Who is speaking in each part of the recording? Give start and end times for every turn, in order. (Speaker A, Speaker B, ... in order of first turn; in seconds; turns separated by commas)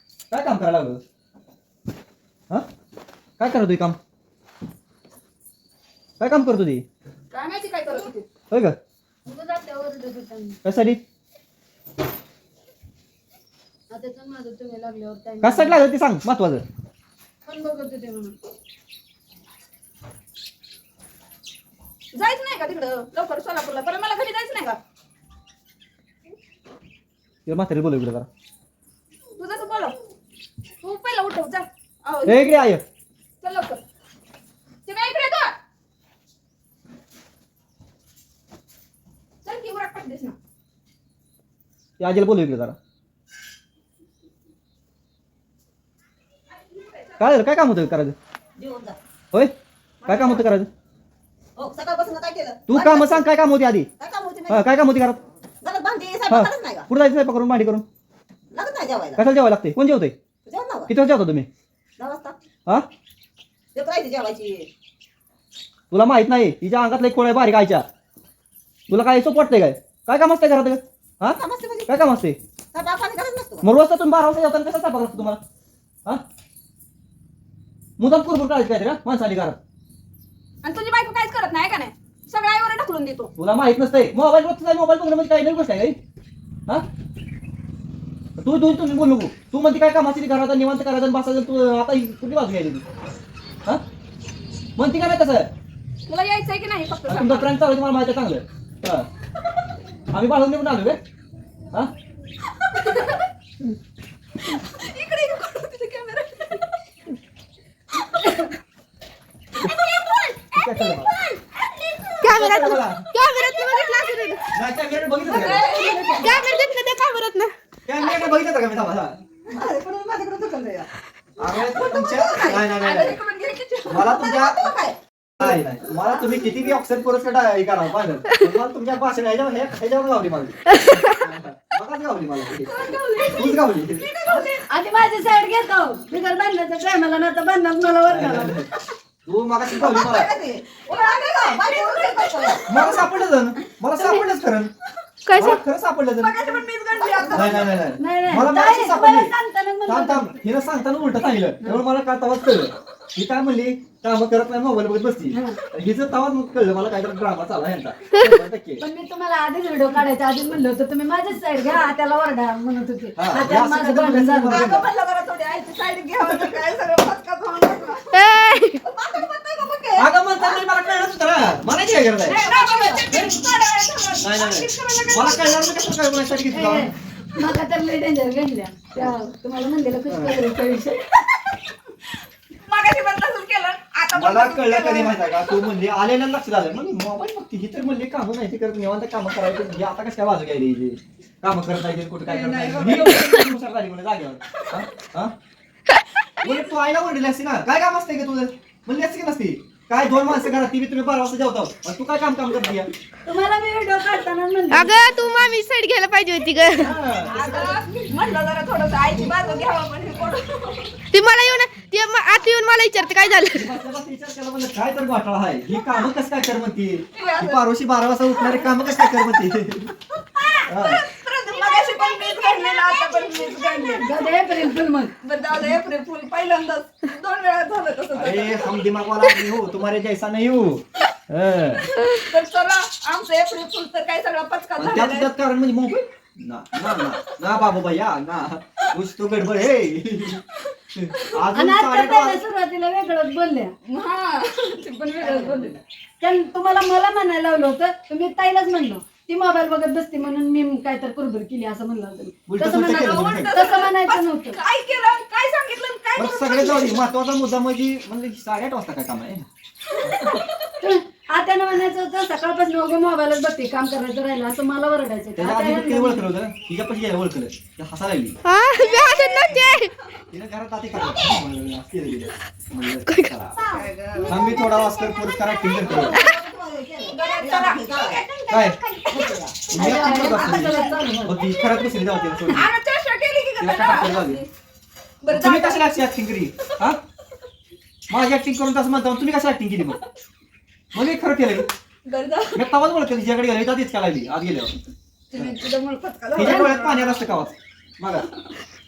Speaker A: 0.3-1.0, Speaker A: 3.4-4.0, Speaker A: 6.2-6.8, Speaker B: 7.3-8.3, Speaker A: 8.5-8.8, Speaker C: 9.2-10.6, Speaker A: 10.6-11.0, Speaker C: 13.9-15.8, Speaker A: 15.4-16.6, Speaker C: 17.4-18.4, Speaker B: 22.1-24.8, Speaker A: 27.5-28.3, Speaker B: 29.4-30.0, Speaker B: 30.8-32.7, Speaker A: 32.3-32.8, Speaker B: 33.4-33.8, Speaker B: 34.9-35.5, Speaker B: 39.5-40.4, Speaker A: 42.0-42.8, Speaker B: 46.7-47.2, Speaker A: 47.2-48.2, Speaker D: 48.6-49.0, Speaker D: 50.0-50.5, Speaker A: 50.1-50.7, Speaker D: 51.6-53.3, Speaker A: 52.7-53.9, Speaker D: 54.0-54.6, Speaker A: 54.5-55.2, Speaker D: 55.6-56.9, Speaker A: 56.3-57.9, Speaker D: 58.5-59.2, Speaker A: 59.2-60.2, Speaker D: 60.5-60.9, Speaker A: 60.9-61.5, Speaker D: 62.0-62.4, Speaker D: 63.8-64.7, Speaker A: 65.9-67.9, Speaker A: 68.9-72.4, Speaker D: 71.3-72.0, Speaker D: 72.7-73.7, Speaker A: 73.6-75.4, Speaker A: 78.0-79.6, Speaker B: 80.6-83.3, Speaker A: 83.4-86.0, Speaker A: 88.4-92.8, Speaker A: 94.8-95.5, Speaker B: 96.1-97.5, Speaker A: 97.1-99.1, Speaker A: 100.1-101.0, Speaker B: 102.6-103.2, Speaker B: 104.5-106.7, Speaker B: 109.6-112.2, Speaker A: 110.5-111.1, Speaker E: 112.2-114.4, Speaker A: 112.3-113.0, Speaker A: 114.5-115.7, Speaker B: 115.2-116.5, Speaker E: 116.2-117.5, Speaker A: 117.9-119.2, Speaker D: 119.5-120.9, Speaker A: 121.4-123.2, Speaker D: 121.8-122.5, Speaker B: 122.0-124.2, Speaker A: 123.9-124.7, Speaker D: 124.0-125.0, Speaker A: 125.4-132.7, Speaker B: 132.7-134.7, Speaker A: 133.3-134.1, Speaker C: 134.7-138.6, Speaker A: 138.1-138.7, Speaker A: 139.3-140.3, Speaker D: 139.7-142.8, Speaker B: 140.7-143.1, Speaker A: 142.7-144.7, Speaker C: 144.0-144.3, Speaker E: 145.3-145.6, Speaker A: 145.3-146.4, Speaker B: 146.2-147.7, Speaker D: 146.9-147.6, Speaker A: 147.3-149.3, Speaker C: 148.0-150.4, Speaker A: 149.9-158.8, Speaker C: 155.3-155.6, Speaker C: 158.8-164.7, Speaker A: 163.2-164.9, Speaker B: 164.5-168.7, Speaker A: 166.2-166.6, Speaker E: 168.1-168.8, Speaker D: 168.9-170.8, Speaker A: 170.0-172.5, Speaker B: 172.2-175.6, Speaker C: 172.5-173.3, Speaker A: 174.2-176.9, Speaker C: 176.5-181.0, Speaker A: 180.1-180.4, Speaker B: 182.7-185.7, Speaker A: 184.2-195.3, Speaker B: 192.3-193.5, Speaker B: 196.4-196.7, Speaker A: 196.4-202.9, Speaker C: 203.2-205.3, Speaker E: 204.7-207.0, Speaker A: 206.8-207.9, Speaker B: 207.2-211.0, Speaker E: 211.1-213.8, Speaker A: 213.5-219.9, Speaker B: 217.1-217.7, Speaker B: 218.3-219.3, Speaker B: 220.3-228.8, Speaker A: 220.7-221.0, Speaker D: 221.6-223.5, Speaker C: 223.7-225.1, Speaker A: 228.1-231.9, Speaker B: 231.9-235.3, Speaker A: 234.8-240.4, Speaker A: 240.9-242.4, Speaker C: 241.5-243.7, Speaker B: 243.9-245.8, Speaker C: 246.2-254.6, Speaker A: 252.5-253.7, Speaker B: 252.6-257.0, Speaker A: 256.2-259.5, Speaker B: 260.0-260.7, Speaker A: 260.1-260.4, Speaker C: 260.8-266.3, Speaker A: 265.4-268.4, Speaker E: 268.4-269.9, Speaker B: 268.7-269.8, Speaker A: 270.3-273.6, Speaker D: 273.5-274.8, Speaker B: 273.7-275.0, Speaker A: 274.3-276.2, Speaker D: 275.8-278.2, Speaker B: 277.1-280.9, Speaker A: 278.5-278.8, Speaker D: 279.1-280.8, Speaker A: 279.7-282.7, Speaker C: 279.7-281.4, Speaker B: 281.6-284.5, Speaker A: 283.6-284.4, Speaker B: 285.2-285.9, Speaker A: 285.3-287.0, Speaker A: 288.1-290.0, Speaker A: 290.9-291.7, Speaker B: 292.1-292.6, Speaker A: 292.5-294.8, Speaker B: 295.3-297.3, Speaker A: 296.3-298.3